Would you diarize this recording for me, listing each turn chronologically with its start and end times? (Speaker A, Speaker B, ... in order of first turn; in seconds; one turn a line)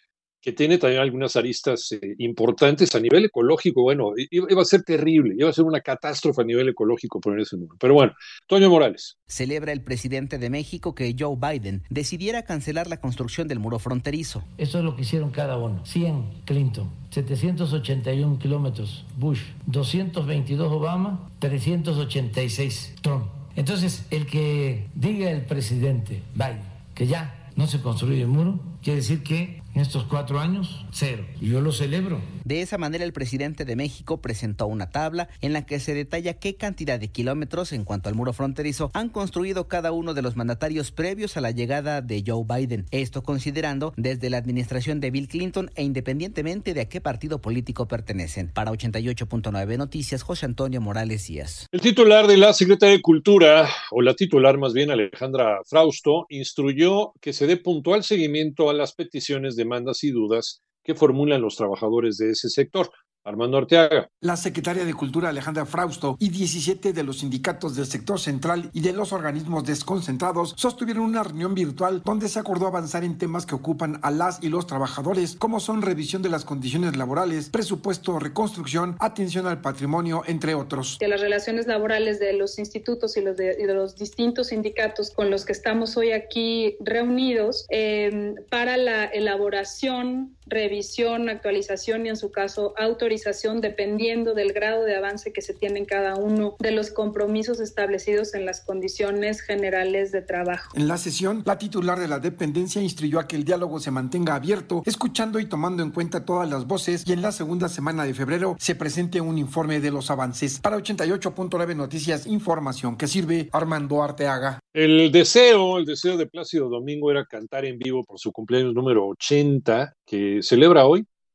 Speaker A: 0.4-9.1
Speaker B: 9.3-14.4
Speaker C: 14.5-32.3
Speaker B: 32.5-51.6
Speaker A: 51.7-64.1
Speaker D: 64.2-81.0
Speaker E: 81.0-100.7
Speaker D: 100.7-114.6
Speaker A: 114.7-121.0